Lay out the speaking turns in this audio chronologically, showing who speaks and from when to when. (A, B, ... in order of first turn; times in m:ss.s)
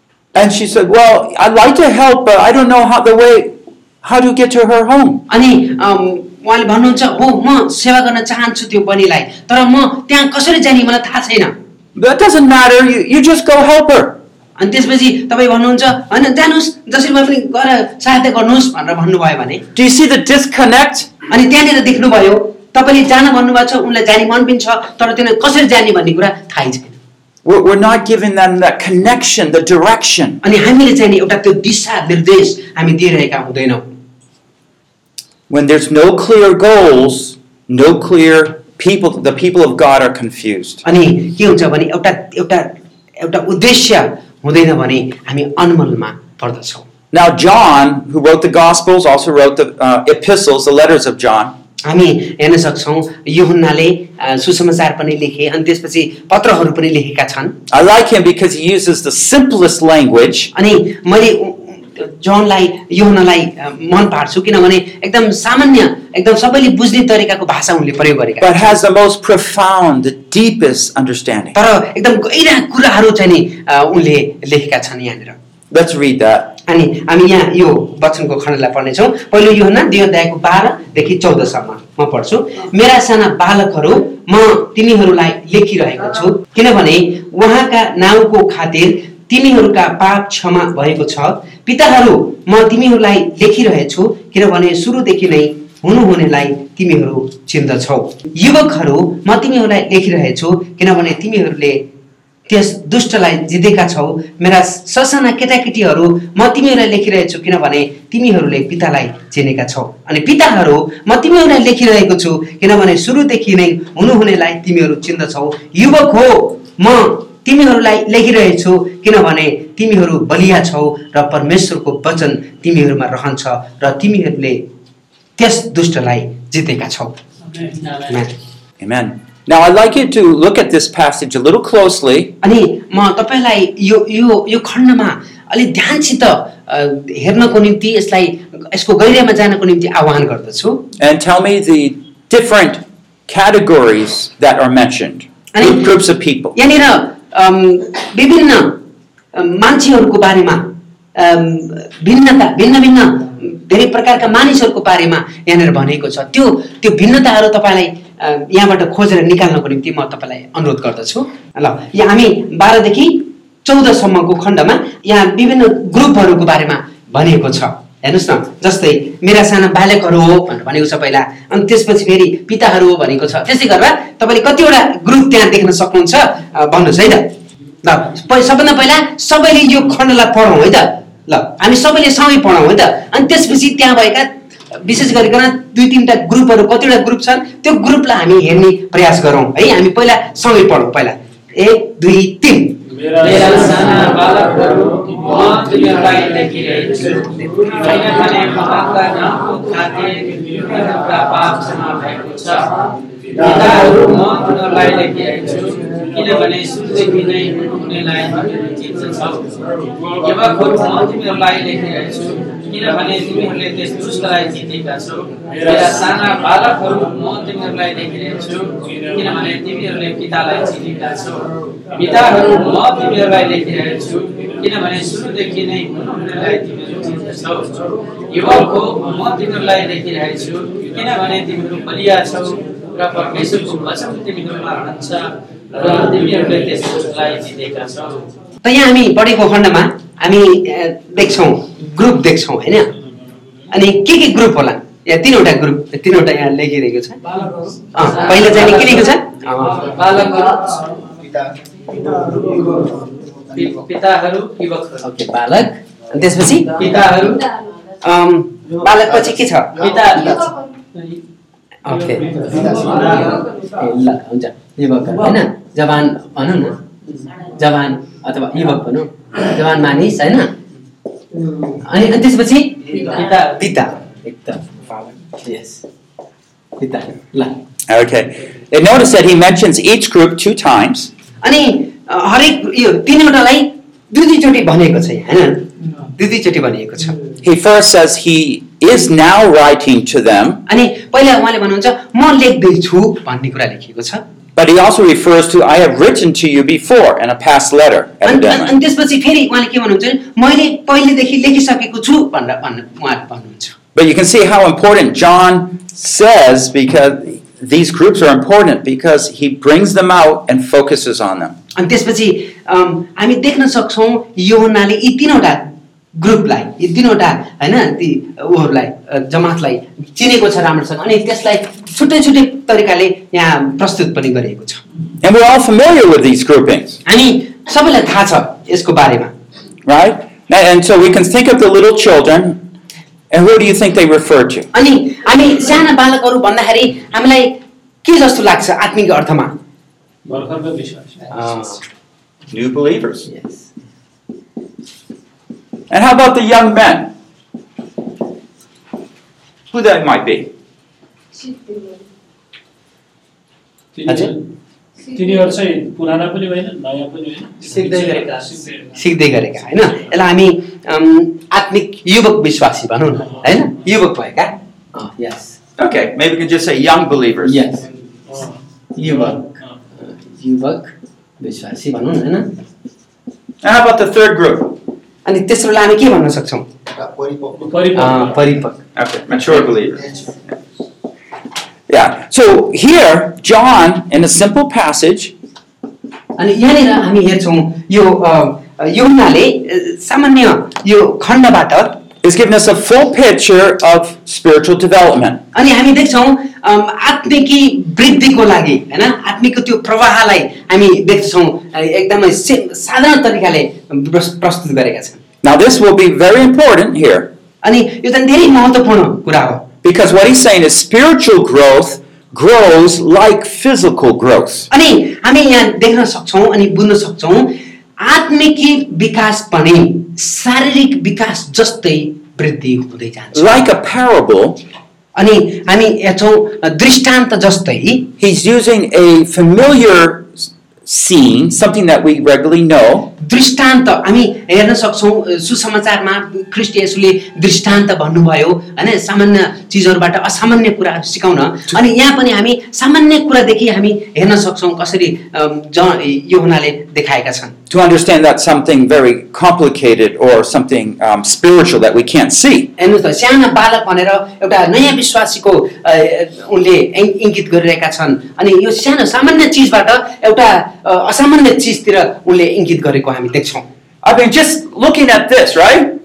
0:00.3-0:05.2 A
0:05.3-0:11.5 B
0:12.0-0:14.2 A
0:14.6-0:19.6 B
0:19.7-0:21.1 A
0:21.3-0:27.0 B
0:27.4-0:30.4 A
0:30.4-0:33.9 B
0:35.5-0:40.8 A
0:40.8-0:46.8 B
0:47.1-0:51.5 A
0:51.8-0:57.6 B
0:57.7-1:00.5 A
1:00.5-1:08.8 B
1:08.4-1:11.6 A
1:11.5-1:15.4 B
1:15.7-1:16.5 A
1:16.7-1:41.8 B
1:42.5-2:04.6 B
2:05.4-2:07.2 B
2:08.1-2:08.3 B
2:08.8-2:12.3 A
2:12.4-2:20.9 B
2:21.0-2:26.6 A
2:25.5-2:25.9 B
2:26.5-2:28.8 B
2:29.3-3:12.8 B
3:13.1-3:13.6 C
3:13.2-3:22.7 D
3:23.3-3:29.5 D
3:30.1-3:58.2 D
3:35.5-3:36.1 C
3:58.6-4:02.9 B
4:03.7-4:07.2 B
4:07.9-4:09.9 B
4:08.3-4:10.8 D
4:13.5-4:15.0 D
4:15.0-4:16.8 B
4:16.8-4:17.5 D
4:18.0-4:19.8 B
4:19.8-4:21.2 D
4:21.8-4:22.4 B
4:22.5-4:23.2 D
4:23.6-4:26.8 B
4:27.4-4:30.5 B
4:31.7-4:35.8 B
4:36.8-4:37.6 B
4:37.9-4:41.1 A
4:41.4-4:47.2 B
4:47.4-4:50.6 A
4:50.7-4:54.2 B
4:54.6-4:58.7 A
4:58.2-5:03.7 B
5:03.9-5:11.6 A
5:11.7-5:24.8 B
5:25.2-5:27.0 A
5:27.0-5:29.3 B
5:29.8-5:32.6 A
5:33.3-5:34.7 A
5:34.7-5:39.6 B
5:40.2-5:41.5 C
5:41.3-5:41.8 B
5:42.5-5:43.3 A
5:45.9-5:47.1 A
5:49.7-5:50.5 A
5:53.9-5:54.4 C
5:54.1-5:54.3 B
5:55.1-5:59.0 C
5:59.0-6:05.6 B
6:05.8-6:07.6 A
6:07.4-6:07.8 B
6:08.3-6:09.7 C
6:08.9-6:09.5 B
6:10.0-6:12.6 B
6:13.6-6:14.8 A
6:15.2-6:16.7 B
6:17.5-6:18.4 C
6:17.9-6:18.8 B
6:19.0-6:20.2 A
6:21.9-6:25.3 A
6:26.4-6:32.0 B
6:32.2-6:35.4 A
6:35.5-6:45.2 B
6:45.4-6:47.3 A
6:47.6-6:49.7 B
6:49.8-6:54.7 A
6:54.7-7:03.7 B
7:03.3-7:04.6 A
7:05.2-7:08.1 B
7:08.2-7:13.1 A
7:13.2-7:27.6 B
7:27.7-7:32.7 A
7:32.8-7:43.6 B
7:44.0-7:45.9 A